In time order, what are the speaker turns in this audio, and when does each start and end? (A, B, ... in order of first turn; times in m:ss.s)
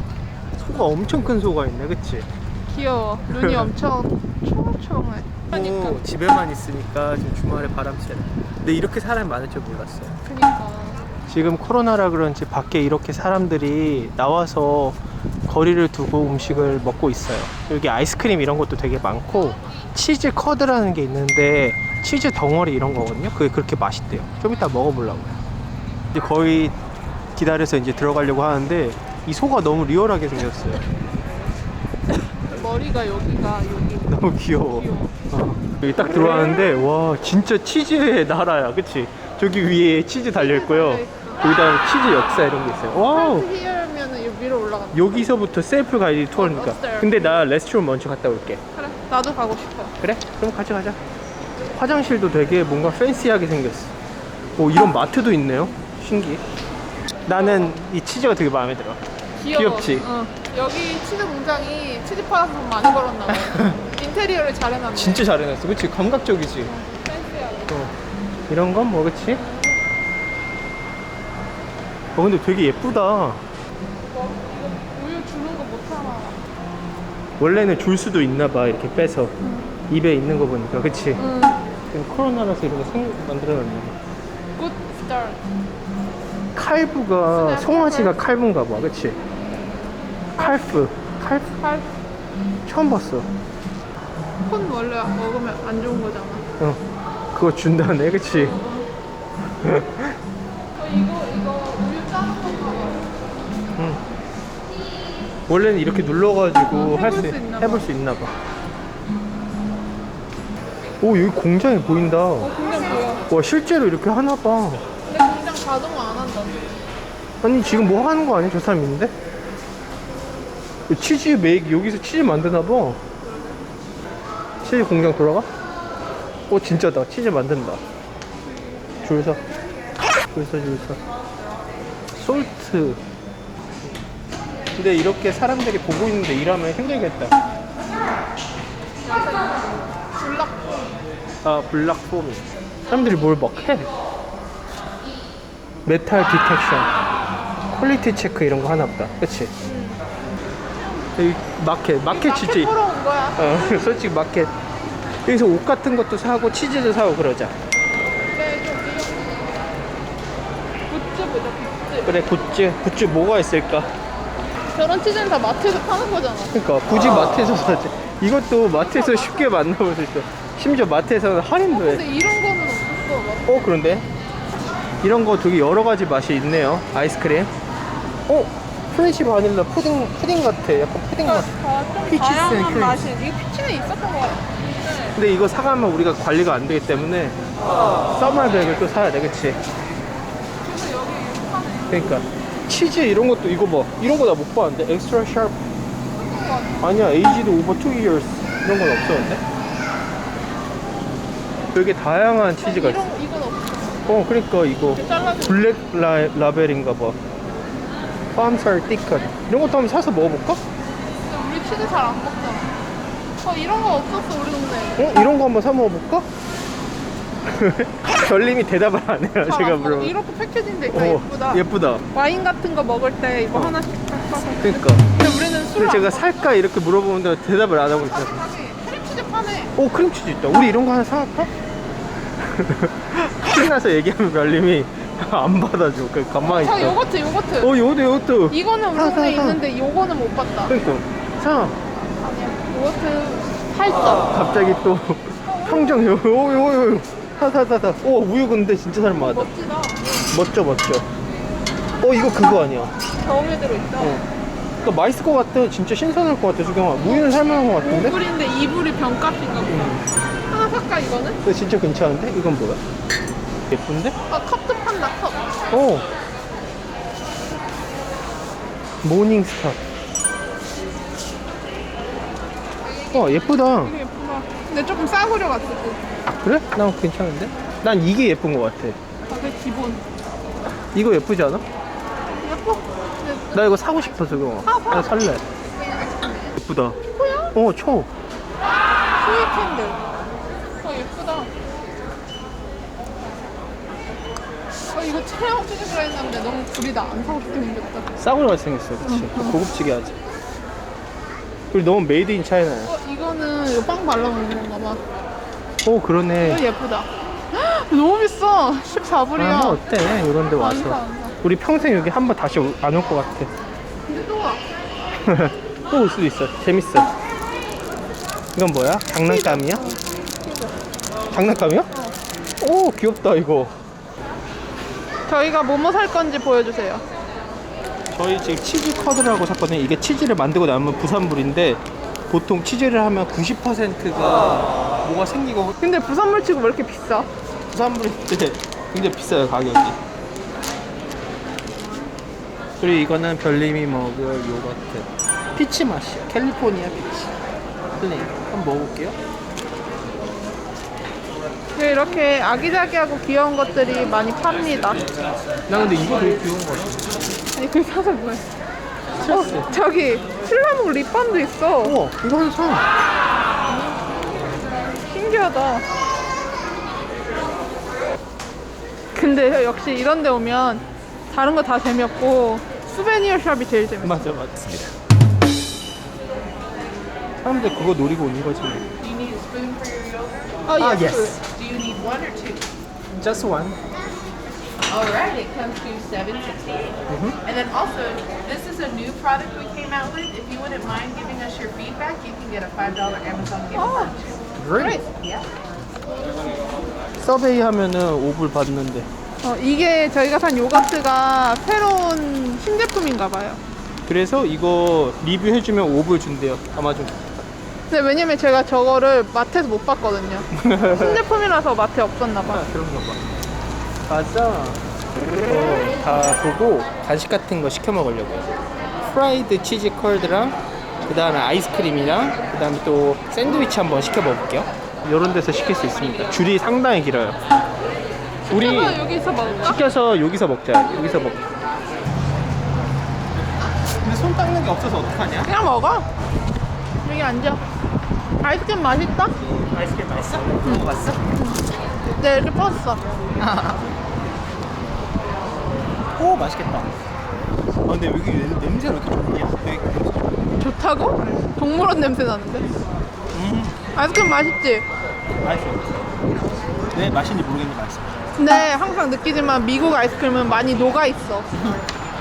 0:00.6-0:02.3 A
0:02.7-0:06.0 B
0:03.3-0:03.7 A
0:05.5-0:10.2 A
0:10.2-0:11.1 B
0:11.3-0:25.4 A
0:26.1-0:26.7 A
0:27.4-0:30.8 A
0:32.2-0:35.1 B
0:34.1-0:43.5 A
0:40.3-0:41.5 B
0:43.1-0:45.1 B
0:44.9-0:48.6 A
0:46.3-0:47.4 B
0:48.7-0:49.9 B
0:50.0-0:51.0 A
0:51.7-0:53.9 A
0:54.6-0:56.4 A
0:57.2-0:57.8 B
0:57.2-1:00.1 A
0:59.4-1:05.2 B
1:03.3-1:03.8 A
1:04.9-1:06.7 A
1:06.6-1:07.8 B
1:07.7-1:08.0 A
1:08.5-1:09.4 A
1:09.3-1:09.8 B
1:12.1-1:13.4 A
1:14.1-1:16.4 B
1:17.4-1:19.4 A
1:19.4-1:19.8 B
1:19.9-1:21.2 A
1:21.2-1:21.6 B
1:21.9-1:24.0 A
1:24.6-1:25.4 B
1:26.5-1:29.2 A
1:27.3-1:28.2 B
1:30.4-1:31.6 A
1:30.4-1:30.7 B
1:31.5-1:31.9 B
1:32.6-1:33.3 A
1:34.4-1:36.4 B
1:37.3-1:38.6 A
1:38.3-1:38.9 B
1:39.6-1:40.2 A
1:40.7-1:43.1 B
1:45.5-1:48.3 A
1:46.7-1:47.9 B
1:51.0-1:52.5 A
1:52.4-1:53.2 B
1:53.3-1:54.8 A
1:55.0-1:56.6 B
1:57.4-1:59.1 A
2:00.9-2:03.0 A
2:04.6-2:05.5 A
2:06.5-2:07.8 A
2:09.0-2:09.4 A
2:10.3-2:11.0 A
2:12.2-2:13.0 A
2:14.8-2:17.4 A
2:19.0-2:20.7 B
2:21.4-2:23.9 A
2:25.8-2:26.9 A
2:27.7-2:29.5 A
2:29.6-2:30.1 B
2:31.2-2:32.7 A
2:32.1-2:34.0 B
2:33.4-2:34.5 A
2:35.2-2:37.5 A
2:38.2-2:39.5 B
2:40.9-2:42.2 B
2:42.0-2:43.9 A
2:44.7-2:46.5 B
2:46.5-2:52.0 A
2:48.8-2:49.5 B
2:51.7-2:53.7 B
2:53.5-2:54.0 A
2:55.0-2:57.5 A
2:58.3-3:01.5 A
3:01.2-3:05.2 B
3:02.1-3:03.1 A
3:05.1-3:07.4 A
3:08.0-3:09.6 A
3:10.6-3:12.0 B
3:11.9-3:15.6 A
3:16.1-3:16.9 B
3:16.8-3:19.4 A
3:21.7-3:23.1 A
3:22.6-3:24.0 B
3:24.1-3:27.2 A
3:24.9-3:25.7 B
3:28.3-3:30.6 A
3:31.2-3:32.7 B
3:33.4-3:35.0 B
3:35.0-3:36.3 A
3:37.4-3:40.1 A
3:39.4-3:46.3 B
3:40.9-3:42.0 A
3:43.5-3:43.8 A
3:44.6-3:45.0 A
3:45.7-3:48.5 A
3:48.0-3:49.7 B
3:49.8-3:51.5 A
3:52.4-3:57.0 A
3:56.4-3:57.7 B
3:57.6-3:59.6 A
3:58.5-4:00.8 B
4:00.7-4:01.8 A
4:02.2-4:04.3 B
4:04.3-4:09.5 A
4:05.4-4:06.1 B
4:09.2-4:10.0 B
4:10.3-4:11.0 A
4:12.0-4:12.9 A
4:13.1-4:14.2 B
4:14.0-4:14.2 A
4:14.8-4:18.2 A
4:17.0-4:19.8 B
4:19.7-4:20.0 A
4:20.5-4:21.4 B
4:21.4-4:22.8 A
4:23.7-4:24.2 A
4:24.3-4:25.5 B
4:25.7-4:26.1 A
4:29.0-4:29.8 A
4:33.1-4:33.9 A
4:33.1-4:36.0 B
4:36.4-4:39.0 A
4:39.3-4:40.0 B
4:40.9-4:41.6 A
4:42.4-4:43.6 B
4:43.5-4:45.4 A
4:44.6-4:45.1 B
4:45.8-4:46.5 B
4:46.6-4:47.0 A
4:47.1-4:47.5 B
4:47.5-4:48.1 A
4:49.2-4:50.0 B
4:50.8-4:51.5 B
4:54.9-4:58.1 B
4:58.2-5:00.2 A
4:59.0-4:59.6 B
5:01.7-5:02.9 A
5:02.8-5:05.0 B
5:05.8-5:06.6 A
5:06.4-5:09.8 B
5:09.4-5:13.5 A
5:10.6-5:11.3 B
5:14.0-5:14.6 B
5:15.2-5:17.1 A
5:18.5-5:19.9 A
5:19.2-5:20.7 B
5:21.3-5:21.9 A
5:22.6-5:23.7 A
5:25.3-5:27.0 B
5:28.1-5:35.8 A
5:35.8-5:37.3 B
5:37.7-5:40.0 A
5:42.8-5:47.3 A
5:48.0-5:49.2 A
5:51.8-5:55.1 B
5:55.7-5:57.2 A
5:57.5-5:58.4 B
5:59.2-5:59.7 A
5:59.2-6:02.0 B
6:01.8-6:02.8 A
6:05.0-6:05.8 B
6:09.1-6:14.3 B
6:14.0-6:14.9 A
6:17.4-6:18.9 A
6:19.1-6:20.3 C
6:20.6-6:21.4 B
6:20.8-6:21.4 A
6:21.6-6:22.6 C
6:23.2-6:23.8 A
6:24.9-6:26.9 C
6:27.1-6:27.4 A
6:27.5-6:33.7 C
6:33.7-6:35.1 B
6:34.5-6:35.0 A
6:37.2-6:39.1 A
6:39.4-6:43.6 B
6:44.0-6:47.2 A
6:47.9-6:52.7 B
6:50.5-6:51.2 A
6:52.5-6:53.2 A
6:54.1-6:54.8 A
6:55.4-6:58.5 A
6:59.0-7:07.4 A
7:08.5-7:09.8 B
7:08.5-7:11.4 A
7:14.0-7:15.5 A
7:15.4-7:16.1 B
7:17.0-7:17.6 B
7:18.4-7:19.3 B
7:19.6-7:21.2 A
7:20.6-7:21.6 B
7:22.2-7:23.0 B
7:23.4-7:23.9 A
7:26.1-7:26.9 A
7:27.8-7:30.3 A
7:30.6-7:32.7 B
7:33.3-7:33.8 A
7:33.9-7:34.8 B
7:35.4-7:36.1 A
7:36.9-7:38.3 A
7:38.4-7:41.6 B